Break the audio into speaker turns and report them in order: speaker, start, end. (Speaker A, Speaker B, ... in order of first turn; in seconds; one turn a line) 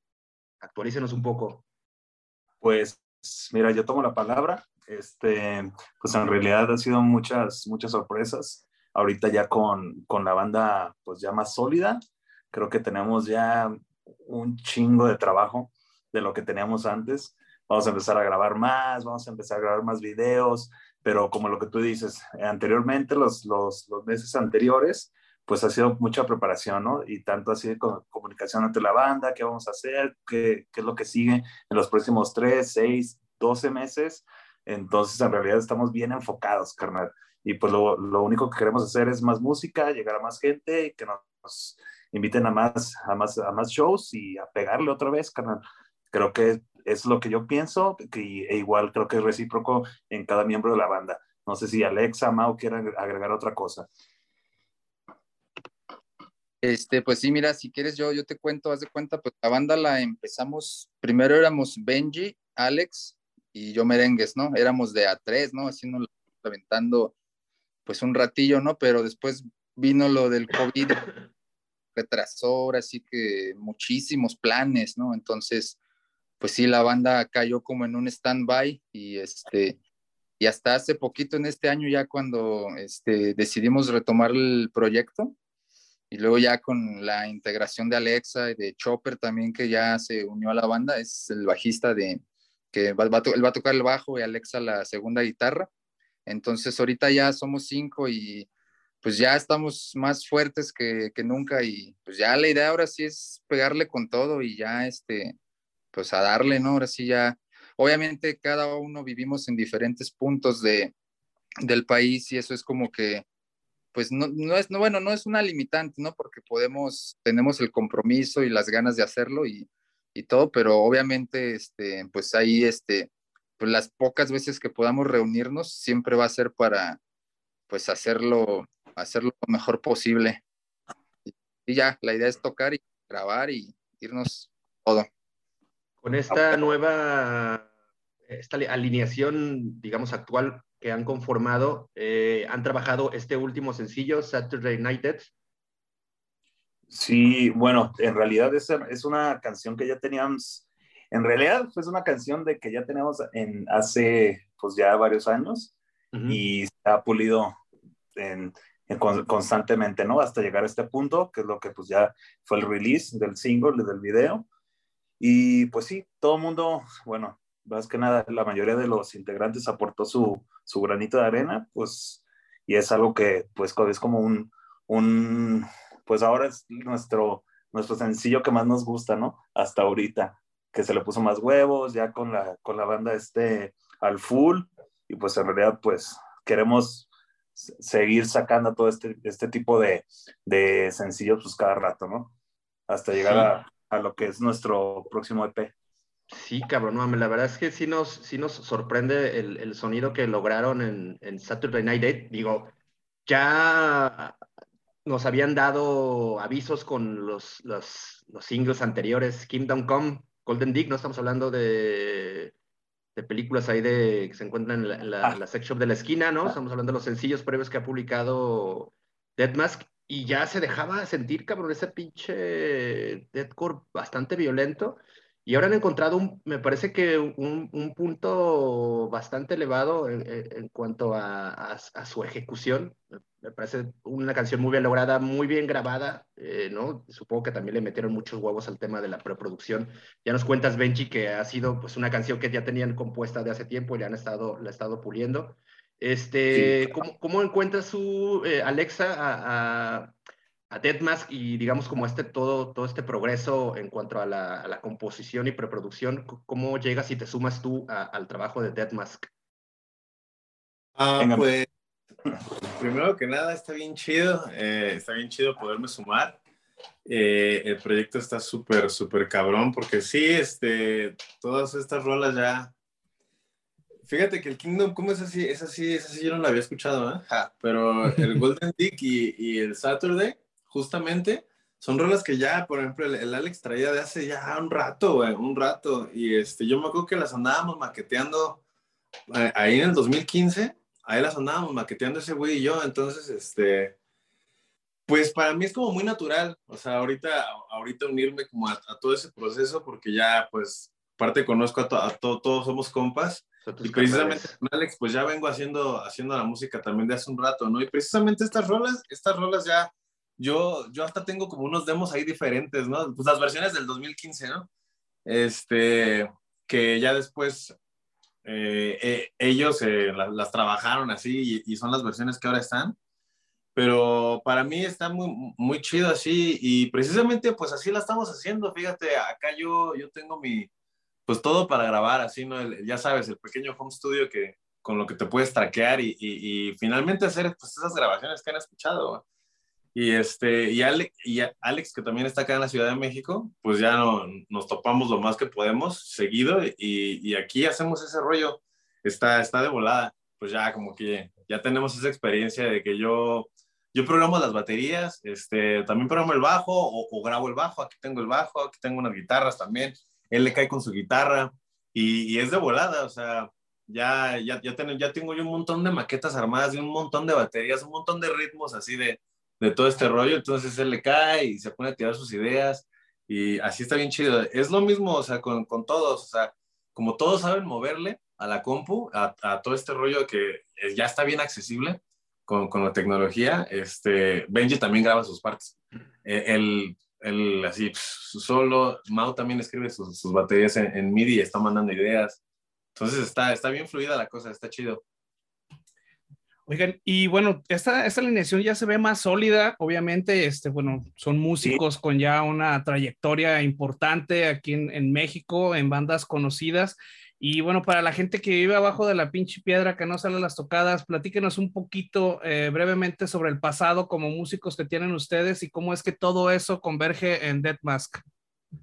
Speaker A: 0.6-1.6
Speaker B: 2.6-12.0
Speaker B: 12.5-53.9
Speaker C: 56.6-67.1
Speaker C: 67.8-71.1
Speaker C: 72.0-75.8
Speaker C: 76.4-79.8
Speaker C: 80.4-85.3
Speaker C: 86.1-95.7
Speaker C: 96.3-98.5
Speaker C: 99.0-105.3
Speaker C: 105.9-110.9
Speaker C: 111.6-113.2
Speaker C: 113.9-127.0
Speaker C: 127.7-130.4
Speaker C: 131.2-135.1
Speaker A: 136.0-137.7
Speaker A: 138.3-145.3
Speaker B: 146.9-155.7
Speaker A: 156.1-156.4
Speaker B: 156.3-157.6
Speaker B: 158.1-164.4
Speaker B: 165.2-192.3
Speaker B: 192.9-195.7
Speaker A: 193.1-193.5
Speaker A: 196.3-202.7
Speaker A: 203.2-204.4
Speaker A: 205.0-212.5
Speaker A: 213.1-250.1
Speaker B: 246.5-247.0
Speaker A: 250.7-259.3
Speaker D: 261.0-261.7
Speaker B: 261.2-261.5
Speaker D: 262.7-266.4
Speaker D: 267.0-272.7
Speaker D: 274.1-288.6
Speaker D: 289.3-293.9
Speaker D: 295.1-314.7
Speaker A: 303.6-304.5
Speaker D: 315.2-317.7
Speaker D: 318.4-322.9
Speaker D: 323.7-330.7
Speaker D: 331.3-339.2
Speaker D: 339.9-392.4
Speaker D: 392.9-395.0
Speaker E: 396.7-418.2